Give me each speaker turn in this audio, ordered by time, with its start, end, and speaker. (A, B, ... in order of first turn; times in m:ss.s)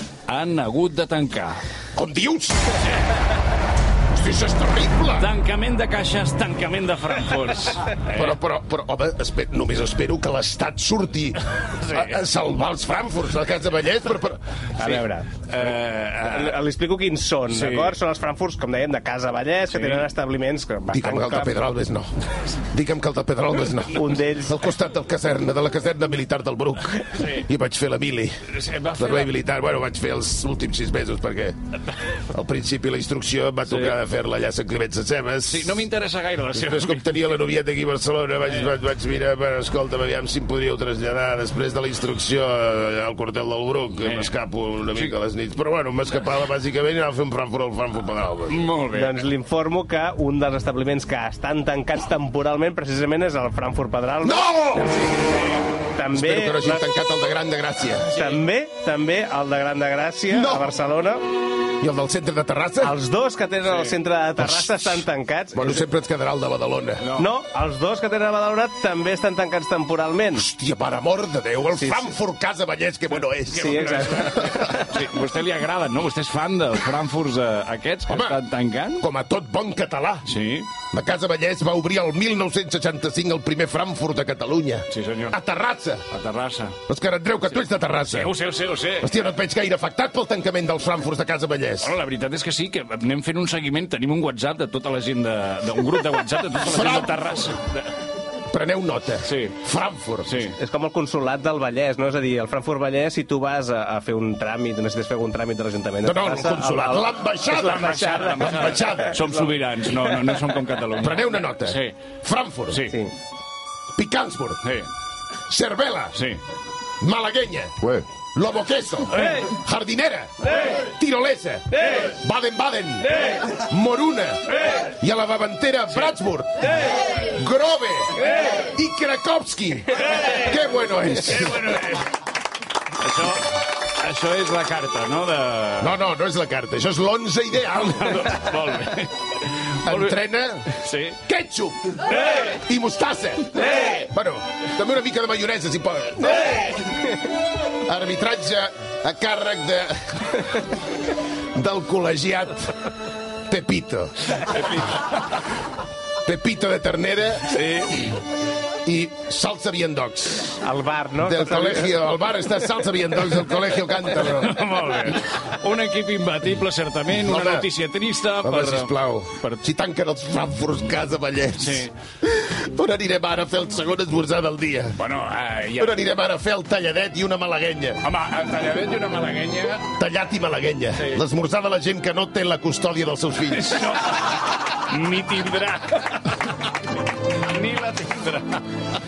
0:00.3-0:01.6 A
0:01.9-0:02.8 B
0:04.1-0:05.3 B
0:05.1-0:08.4 A
0:08.1-0:14.4 B
0:11.8-0:12.2 A
0:14.8-0:21.6 C
0:14.8-0:16.6 A
0:17.5-0:18.0 A
0:19.7-0:20.0 A
0:20.9-0:28.4 B
0:23.9-0:24.6 C
0:27.1-0:27.4 A
0:28.5-0:29.3 A
0:29.0-0:31.6 B
0:32.2-0:35.8 B
0:33.7-0:34.0 A
0:35.5-0:37.2 A
0:36.5-0:48.6 B
0:44.0-0:44.3 A
0:48.5-0:49.2 A
0:48.9-0:56.8 C
0:54.2-0:55.3 B
0:56.1-0:58.2 B
0:58.1-1:01.2 C
0:58.1-0:58.4 A
1:00.3-1:00.7 B
1:01.8-1:02.9 B
1:02.8-1:05.8 C
1:03.6-1:04.0 A
1:04.4-1:05.0 B
1:05.5-1:07.1 B
1:07.0-1:07.3 A
1:07.1-1:10.5 C
1:10.3-1:14.8 B
1:11.8-1:12.1 C
1:13.5-1:14.9 C
1:13.6-1:19.0 A
1:18.1-1:18.4 B
1:19.0-1:20.2 B
1:20.2-1:20.7 A
1:20.9-1:26.0 B
1:24.9-1:25.4 A
1:26.1-1:26.8 A
1:26.9-1:28.3 B
1:28.1-1:29.2 A
1:29.0-1:31.9 B
1:31.8-1:37.9 A
1:36.6-1:37.2 B
1:38.5-1:40.5 B
1:39.2-1:39.6 A
1:40.2-1:40.6 A
1:40.6-1:49.3 C
1:46.0-1:49.4 B
1:47.7-1:52.0 A
1:51.0-1:52.9 B
1:52.7-1:53.0 A
1:53.9-1:54.6 B
1:54.6-1:54.9 A
1:55.5-1:56.2 B
1:56.1-1:56.4 A
1:57.0-2:11.9 B
1:59.1-1:59.4 A
2:05.9-2:06.2 A
2:10.0-2:10.5 A
2:11.2-2:12.1 A
2:12.9-2:15.9 A
2:15.8-2:18.6 B
2:17.8-2:21.2 A
2:19.8-2:27.0 B
2:23.7-2:23.9 C
2:27.8-2:30.6 B
2:31.5-2:32.9 B
2:33.5-2:34.7 B
2:34.5-2:35.2 A
2:36.2-2:37.6 B
2:37.5-2:38.1 A
2:38.8-2:40.6 B
2:40.6-2:42.0 C
2:41.2-2:44.6 B
2:44.1-2:48.9 A
2:47.2-2:47.7 B
2:48.4-2:55.0 B
2:51.6-2:51.9 A
2:55.0-2:56.0 A
2:55.8-2:58.0 B
2:58.0-2:59.9 A
2:59.9-3:04.0 B
3:01.0-3:01.2 A
3:03.5-3:06.7 A
3:07.3-3:08.6 A